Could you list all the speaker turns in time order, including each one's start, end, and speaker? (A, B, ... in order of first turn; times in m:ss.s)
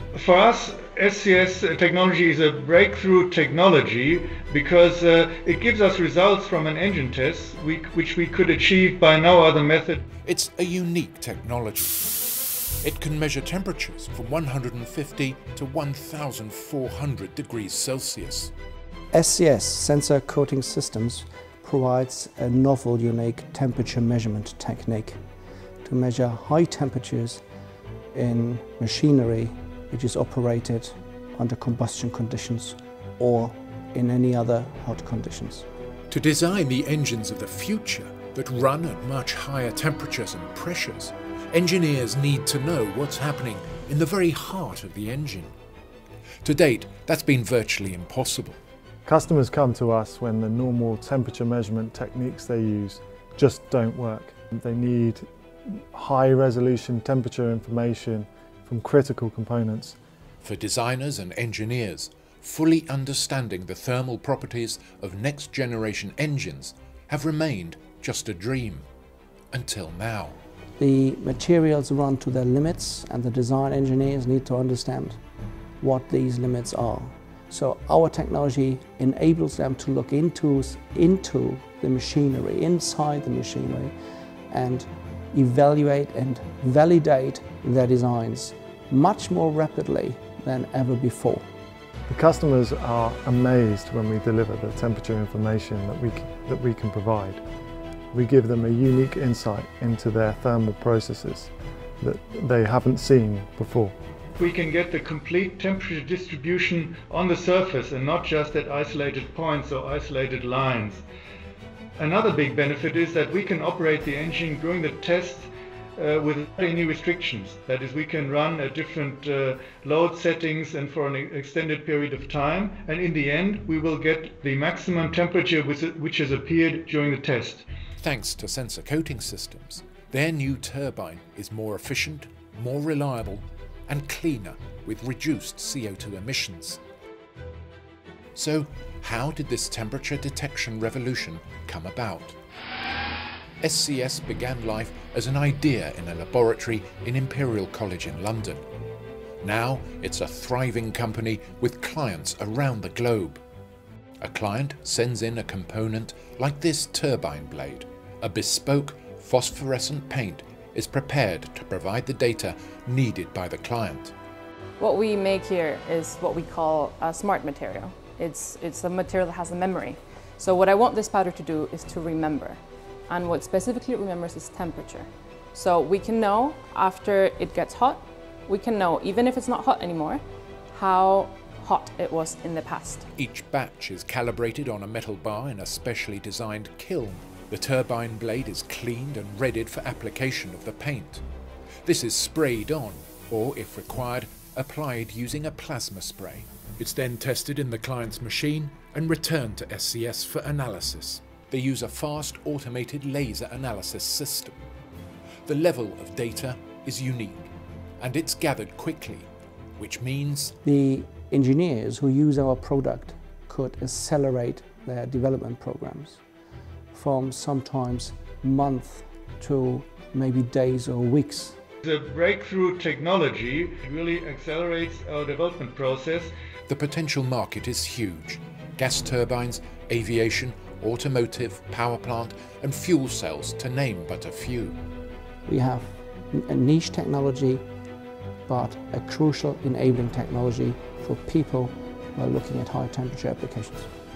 0:00.1-0:10.1 A
0:10.2-0:12.2 B
0:12.8-0:18.5 B
0:19.1-0:25.2 C
0:25.8-0:27.4 C
0:28.1-0:35.7 C
0:36.1-0:45.5 B
0:46.4-0:48.6 B
0:49.0-1:00.0 D
1:00.4-1:08.9 B
1:09.5-1:10.4 B
1:10.8-1:15.2 C
1:15.8-1:23.9 C
1:24.5-1:31.5 C
1:32.1-1:37.4 D
1:38.1-1:44.0 D
1:44.4-1:51.0 A
1:52.0-2:07.6 A
2:08.0-2:16.8 B
2:18.4-2:22.4 B
2:23.6-2:28.6 B
2:29.4-2:33.4 B
2:34.2-2:44.1 B
2:44.8-3:00.2 E
3:00.7-3:03.1 E
3:03.2-3:11.2 B
3:11.8-3:24.7 B
3:25.5-3:30.6 B
3:30.6-3:36.2 C
3:36.9-3:41.6 C
3:41.8-3:46.3 A
3:46.7-3:54.8 B
3:55.5-3:57.6 C
3:58.5-4:03.9 C